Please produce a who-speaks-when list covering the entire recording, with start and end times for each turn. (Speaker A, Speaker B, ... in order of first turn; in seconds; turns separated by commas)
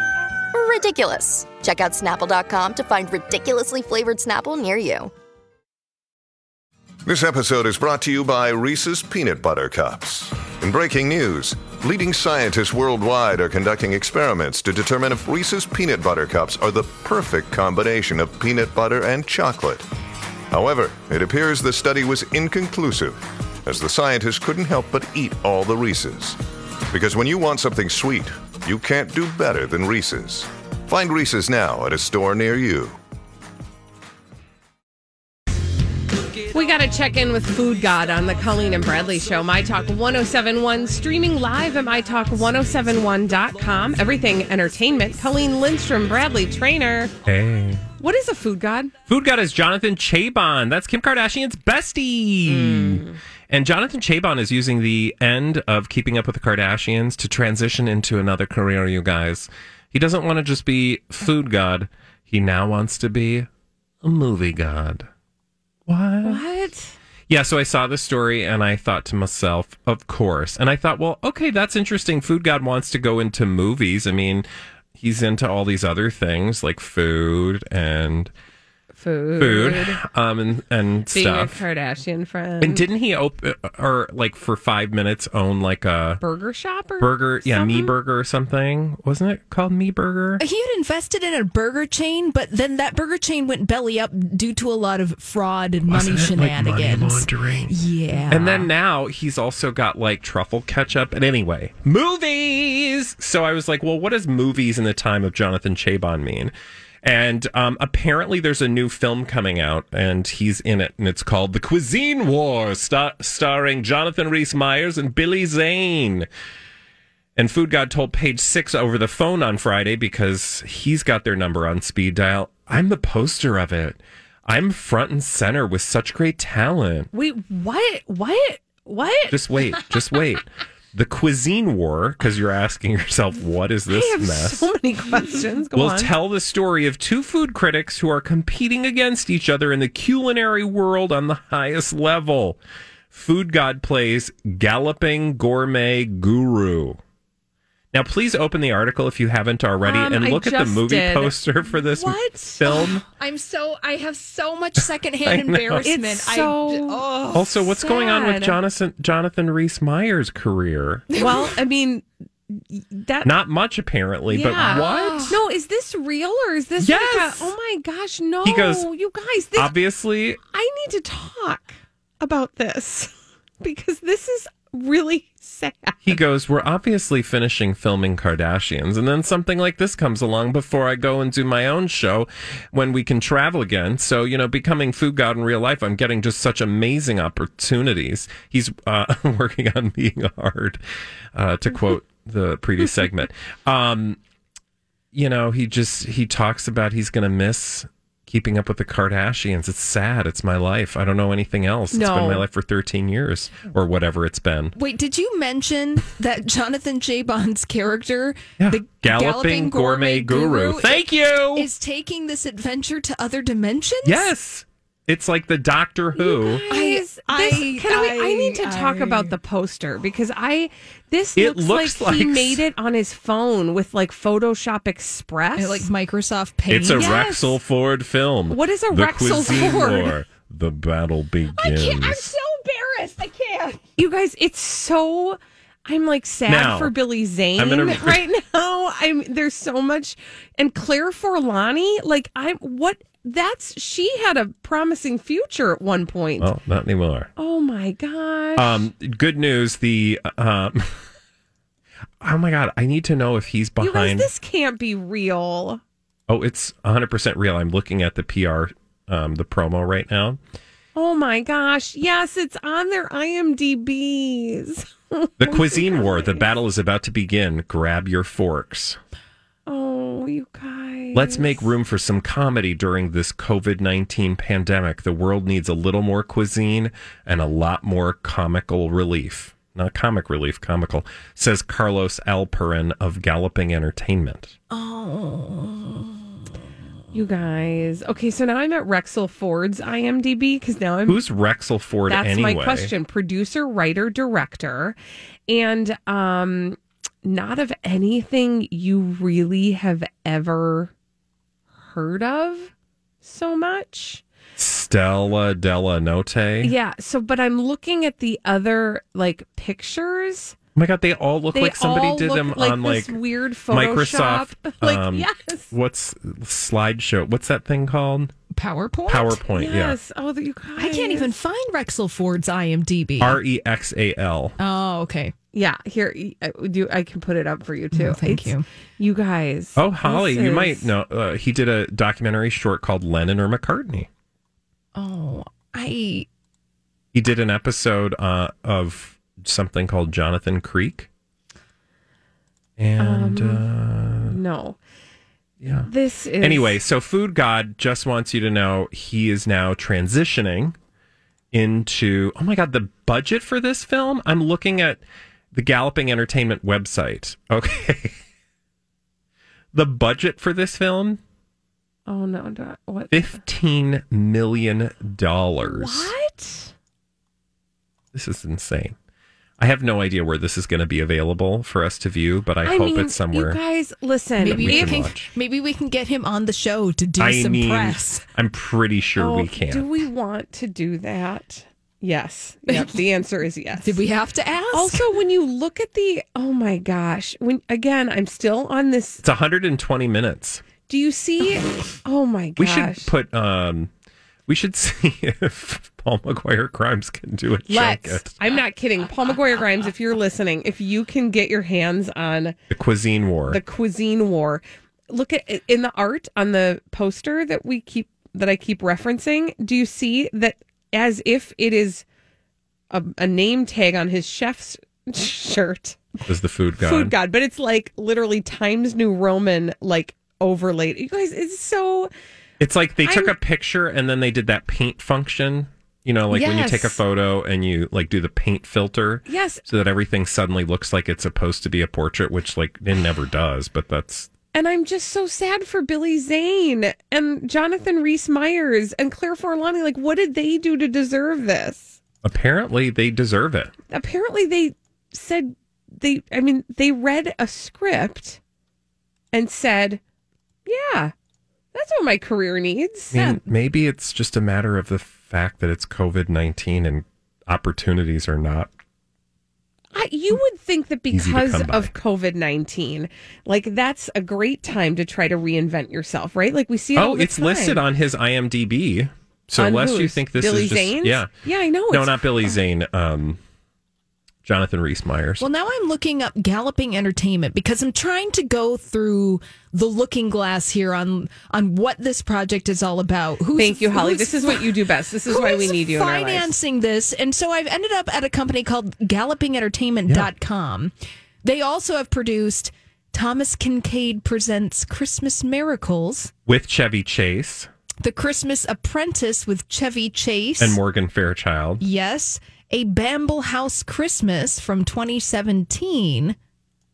Speaker A: 0.5-5.1, Speaker B: 7.0-19.9, Speaker B: 20.5-26.4, Speaker B: 26.9-33.0, Speaker C: 36.5-47.1, Speaker D: 47.2-47.9, Speaker C: 48.0-48.9, Speaker D: 49.1-63.5, Speaker C: 52.4-53.2, Speaker D: 64.0-65.1, Speaker D: 65.9-66.4, Speaker C: 66.2-67.0, Speaker D: 67.3-78.3, Speaker C: 78.9-80.0, Speaker D: 79.4-81.6, Speaker C: 81.1-82.8, Speaker D: 82.6-86.2, Speaker C: 86.2-88.0, Speaker D: 87.0-90.4, Speaker E: 90.4-98.7, Speaker D: 95.9-97.7, Speaker D: 98.3-116.3, Speaker D: 117.4-127.1, Speaker C: 127.1-129.4, Speaker D: 129.3-134.7, Speaker C: 133.9-136.1, Speaker D: 135.7-142.6, Speaker D: 143.1-147.0, Speaker D: 147.9-153.1, Speaker C: 149.8-152.7, Speaker E: 152.6-157.7, Speaker D: 155.2-155.9, Speaker C: 155.8-157.0, Speaker D: 157.3-161.4, Speaker C: 157.8-158.6, Speaker E: 161.1-161.5, Speaker C: 161.1-163.3, Speaker D: 163.2-165.4, Speaker C: 164.3-169.7, Speaker E: 164.5-165.4, Speaker D: 166.8-167.5, Speaker D: 168.4-168.9, Speaker D: 169.6-170.4, Speaker C: 170.5-176.2, Speaker D: 176.0-190.8, Speaker D: 191.3-194.2, Speaker D: 195.1-204.8, Speaker C: 201.9-202.4, Speaker E: 204.7-214.3, Speaker D: 208.6-211.7, Speaker D: 214.1-216.6, Speaker C: 216.2-225.9, Speaker E: 216.7-219.3, Speaker D: 221.4-222.6, Speaker E: 225.6-227.3, Speaker D: 226.7-232.3, Speaker C: 226.9-227.6, Speaker C: 228.5-230.2, Speaker C: 231.6-246.5, Speaker D: 236.5-237.0, Speaker D: 237.6-238.2, Speaker D: 246.4-247.3, Speaker C: 247.4-248.8, Speaker D: 248.6-251.0, Speaker D: 252.2-254.3, Speaker C: 253.8-255.8, Speaker D: 256.3-260.4, Speaker C: 260.9-266.5, Speaker D: 265.4-269.0, Speaker C: 269.7-271.7, Speaker D: 271.1-284.6, Speaker E: 284.7-286.3, Speaker C: 287.1-291.2, Speaker D: 291.1-292.9, Speaker C: 292.1-295.0, Speaker C: 295.5-300.9, Speaker C: 301.8-302.7, Speaker C: 303.2-304.2, Speaker D: 304.6-306.7, Speaker C: 306.6-310.6, Speaker D: 310.8-318.3, Speaker C: 311.5-315.7, Speaker E: 318.5-319.4, Speaker D: 319.1-320.0, Speaker C: 319.5-321.3, Speaker E: 320.8-323.4, Speaker D: 323.2-324.6, Speaker E: 324.6-325.3, Speaker C: 325.5-330.9, Speaker E: 327.9-328.6, Speaker D: 329.8-334.1, Speaker E: 334.9-336.3, Speaker D: 337.1-341.1, Speaker D: 342.8-344.4, Speaker C: 343.0-343.6, Speaker C: 344.3-344.8, Speaker D: 345.6-350.8, Speaker C: 345.9-346.8, Speaker D: 351.5-355.0, Speaker D: 355.5-358.2, Speaker D: 359.7-361.2, Speaker C: 362.1-363.3, Speaker D: 363.1-366.1, Speaker C: 365.6-366.7, Speaker D: 368.1-368.9, Speaker D: 369.6-373.6, Speaker C: 372.6-375.1, Speaker E: 374.4-378.2, Speaker D: 374.4-375.3, Speaker D: 377.2-379.9, Speaker C: 379.2-384.0, Speaker E: 382.7-383.0, Speaker E: 383.8-385.1, Speaker C: 384.7-389.2, Speaker D: 389.2-390.6, Speaker C: 390.9-393.1, Speaker D: 392.6-393.9, Speaker D: 394.5-398.6, Speaker C: 397.7-402.6, Speaker D: 402.7-403.6, Speaker C: 403.5-412.1, Speaker C: 412.9-416.0, Speaker D: 416.3-417.1, Speaker C: 416.8-422.1, Speaker D: 422.6-434.3, Speaker C: 423.0-423.4, Speaker C: 426.3-427.0, Speaker C: 429.3-429.6, Speaker C: 434.5-442.0, Speaker D: 442.2-443.7, Speaker C: 443.9-448.4, Speaker C: 449.3-450.0, Speaker C: 450.6-451.1, Speaker C: 451.7-453.4, Speaker D: 453.1-458.7, Speaker C: 459.9-467.8, Speaker D: 461.1-461.9, Speaker D: 466.9-471.3, Speaker C: 469.6-472.5, Speaker D: 471.9-473.4, Speaker D: 474.4-475.5, Speaker E: 475.4-490.9, Speaker C: 483.6-486.6, Speaker E: 491.4-496.3, Speaker D: 496.5-497.7, Speaker E: 498.0-500.8, Speaker D: 500.6-501.8, Speaker E: 501.8-506.4